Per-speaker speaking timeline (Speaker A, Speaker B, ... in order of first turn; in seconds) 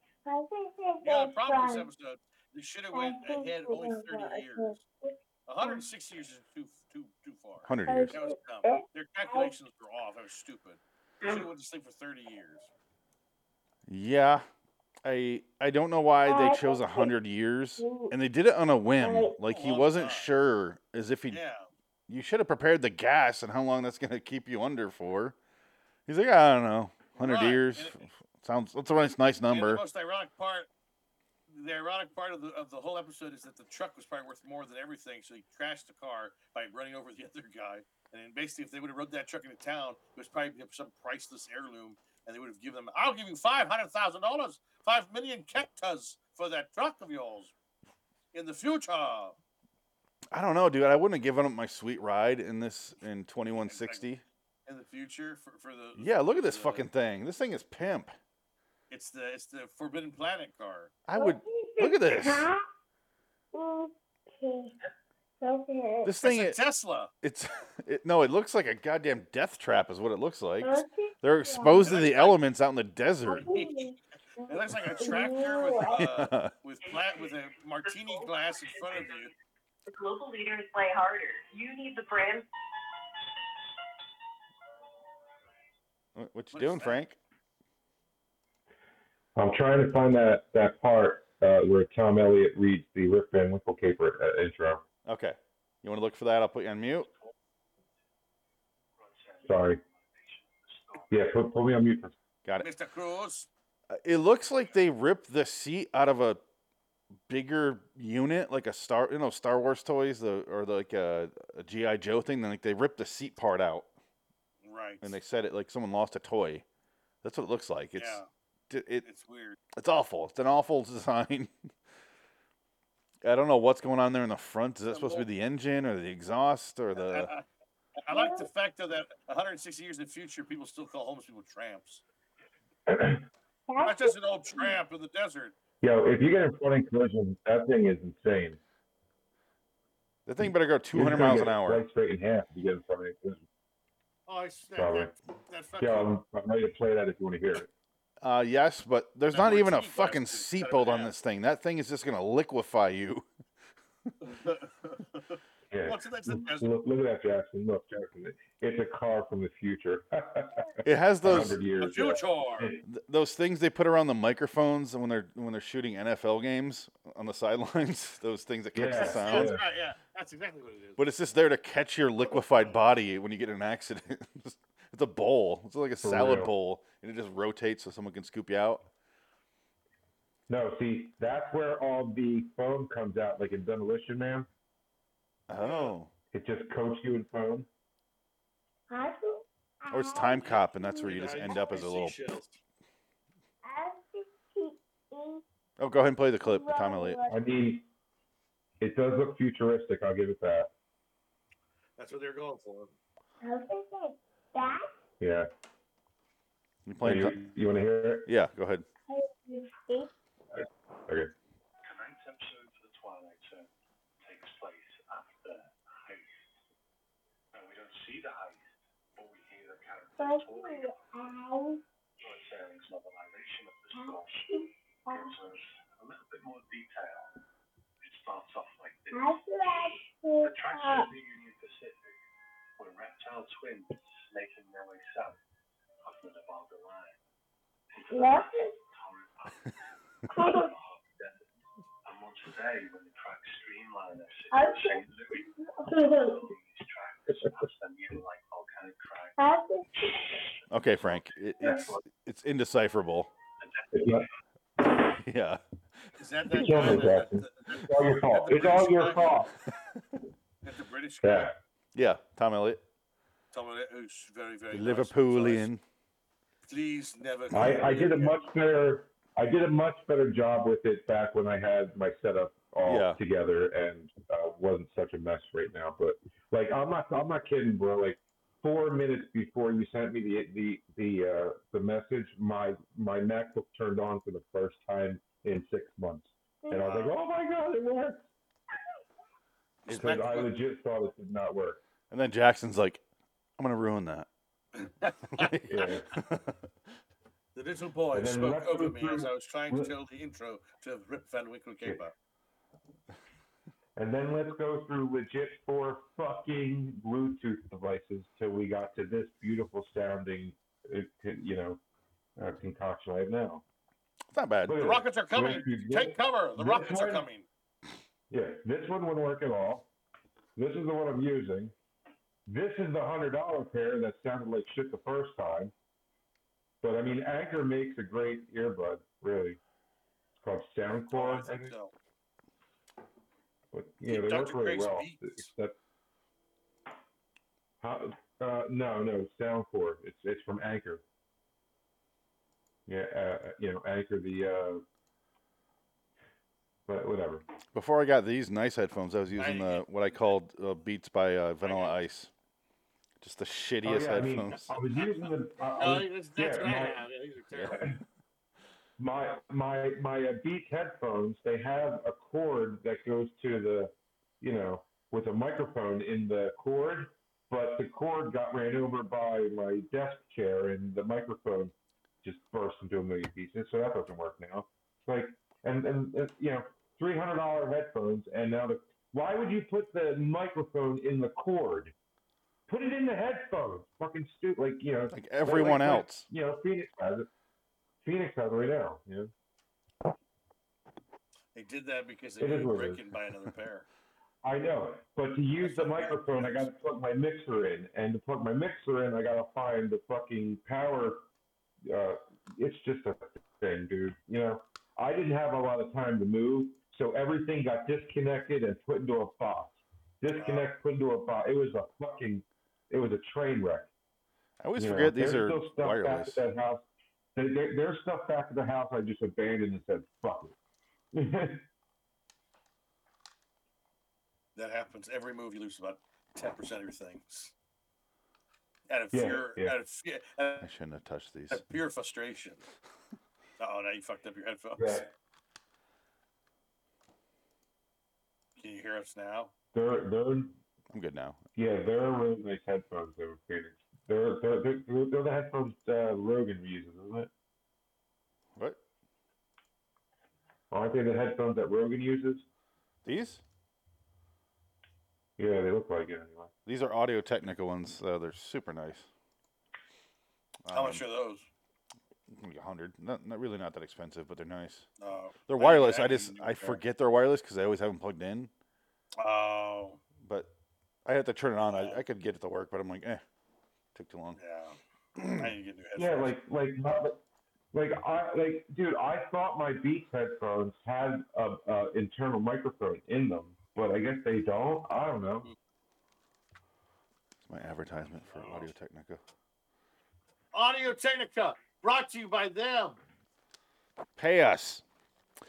Speaker A: 0.2-1.9, 2.9-5.8, 7.9-9.5, 16.2-17.1, 17.8-18.1, 19.0-19.3, 61.1-62.6, 63.5-64.7, 65.4-66.1, 70.6-71.9, 73.2-76.1, 128.1-128.5, 133.7-134.8, 188.9-191.8, 193.6-195.4, 196.4-197.4, 203.4-204.9, 209.1-210.1, 220.2-221.8, 223.9-225.4, 229.1-231.1, 238.1-238.7, 240.3-240.7, 244.5-246.5, 249.4-250.4
Speaker B: 1.0-4.8, 5.5-12.7, 19.4-20.3, 21.3-21.7, 27.2-28.0, 29.5-30.7, 31.5-47.5, 48.3-49.4, 53.6-54.1, 54.6-56.9, 58.9-60.9, 66.2-67.1, 71.8-72.4, 73.3-73.8, 74.5-79.3, 86.5-87.0, 102.6-103.5, 114.6-115.2, 118.0-118.3, 119.0-119.6, 124.9-125.2, 126.9-127.5, 128.1-132.0, 133.8-135.5, 144.3-146.1, 149.3-151.1, 154.2-156.7, 161.8-162.7, 168.9-171.0, 172.2-172.8, 185.6-185.9, 191.0-192.6, 202.0-202.9, 256.2-259.4, 260.6-261.5, 263.5-265.7, 266.6-268.4, 286.8-287.1, 289.8-290.5, 294.8-295.5, 297.5-302.1, 314.8-317.4, 331.1-331.9, 334.0-335.5, 349.4-349.9, 351.6-352.0, 354.9-357.9, 391.5-393.9, 395.6-396.7, 410.4-410.7, 424.6-427.5, 428.9-430.7, 431.5-432.6, 433.6-435.0, 438.6-439.5, 460.7-461.4, 465.0-466.8, 469.2-470.0, 471.7-472.0, 474.4-474.8, 475.3-476.4, 488.2-488.7, 490.5-493.0
Speaker C: 7.6-8.2, 13.9-14.4, 15.0-21.4, 22.1-25.3, 26.1-29.8, 50.3-54.2, 56.0-58.1, 61.0-62.5, 66.0-66.6, 67.2-73.5, 76.0-76.5, 86.1-87.2, 95.0-97.1, 103.9-106.4, 107.3-113.9, 115.0-116.6, 117.2-119.0, 119.7-121.5, 123.2-127.3, 140.2-141.8, 148.2-153.2, 160.8-161.6, 162.9-169.6, 171.0-178.8, 185.5-186.1, 189.9-192.2, 195.8-197.2, 206.8-207.4, 208.3-208.8, 250.7-253.3, 255.2-255.6, 256.6-257.1, 261.9-262.8, 264.7-265.8, 272.8-273.2, 292.1-293.0, 293.6-294.3, 295.4-296.5, 314.3-314.8, 347.7-352.3, 353.2-354.7, 357.5-357.8, 385.1-386.3, 414.6-416.4, 430.6-431.6, 440.9-441.4, 453.0-453.4, 456.6-459.1, 460.6-461.0, 462.3-464.9, 465.5-468.5, 470.2-470.5, 471.1-473.2, 473.9-474.4, 475.2-475.5, 487.5-489.2, 494.2-494.8
Speaker D: 76.8-77.2, 77.8-79.0, 79.9-82.5
Speaker E: 89.3-94.8, 99.4-99.8, 101.1-102.1, 132.9-133.2, 135.8-138.6, 140.9-143.4, 144.8-145.1, 145.8-147.7, 155.7-162.8, 168.7-169.6, 176.0-176.5, 180.5-184.5, 186.3-187.7, 197.3-197.8, 198.8-200.7, 205.2-205.5, 207.0-208.3, 210.5-211.3, 253.9-254.3, 256.5-259.5, 261.2-261.6, 267.5-288.3, 289.9-291.8, 295.7-296.1, 298.1-299.9, 303.9-311.8, 312.4-313.6, 314.7-317.3, 318.3-319.9, 320.6-321.7, 322.5-325.7, 326.8-329.6, 330.4-331.7, 333.7-335.8, 337.8-341.0, 342.9-344.8, 346.9-347.4, 353.8-357.0, 357.7-358.0, 359.0-381.9, 382.7-387.3, 388.0-389.3, 392.4-393.0, 394.4-401.2, 401.8-413.9, 414.8-420.6, 421.1-421.6, 429.1-429.8, 434.8-435.1, 439.7-440.6, 441.6-447.3, 450.7-452.4, 455.4-456.5, 476.0-485.5
Speaker F: 97.0-97.3, 99.0-101.2, 211.8-213.7, 214.2-216.4, 217.5-221.1, 222.2-227.4, 228.0-232.2, 232.8-235.4, 236.0-237.2, 237.9-241.5, 242.0-252.0, 253.6-254.3